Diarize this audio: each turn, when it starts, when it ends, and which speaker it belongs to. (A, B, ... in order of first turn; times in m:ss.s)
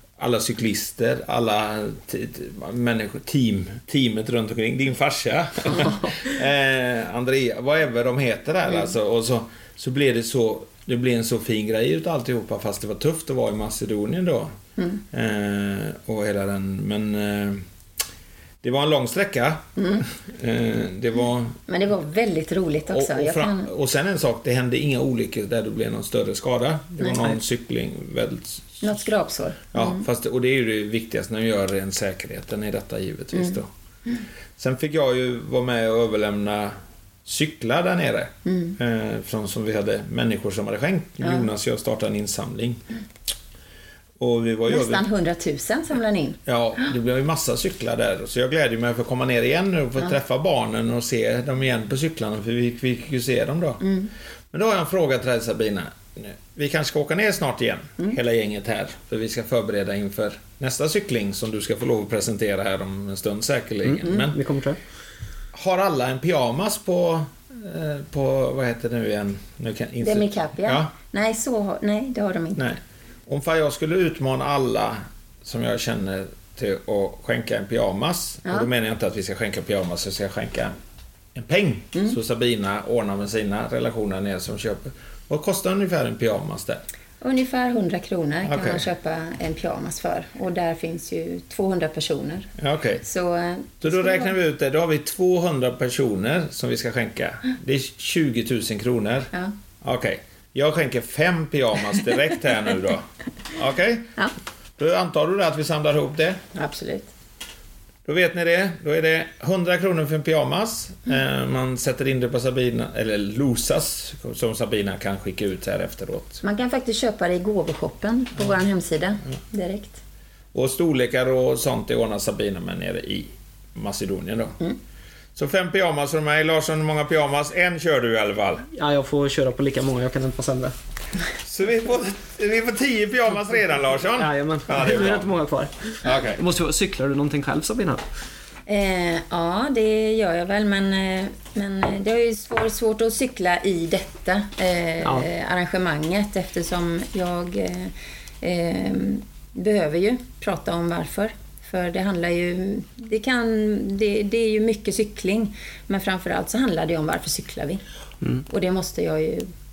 0:00.2-0:14.5 A
0:15.1-0:17.6 A
0:18.6-0:21.6 A
0:19.8-0:20.0 B
0:21.7-0:23.7 B
0:22.9-0:28.8 A
0:27.0-0:27.3 B
0:28.8-0:30.1 B
0:29.7-0:33.7 A
0:34.6-0:42.8 A
0:38.5-0:38.8 B
0:44.2-0:45.0 A
0:44.7-0:46.4 B
0:46.5-0:53.8 A
0:53.8-0:54.1 B
0:54.5-1:04.4 A
1:04.0-1:04.3 B
1:04.2-1:04.8 C
1:05.5-1:10.9 A
1:10.0-1:12.7 B
1:12.6-1:20.8 A
1:21.4-1:26.8 A
1:27.2-1:32.5 B
1:28.4-1:28.9 A
1:32.6-1:33.0 A
1:33.0-1:34.3 B
1:33.8-1:44.2 A
1:44.8-1:46.4 A
1:46.5-1:47.1 B
1:48.0-1:56.4 A
1:56.4-2:00.0 B
2:00.5-2:04.6 A
2:05.4-2:08.7 A
2:08.7-2:10.8 C
2:11.4-2:15.3 A
2:14.2-2:18.0 C
2:16.0-2:16.4 A
2:18.7-2:37.8 B
2:25.0-2:25.3 C
2:38.5-2:39.5 B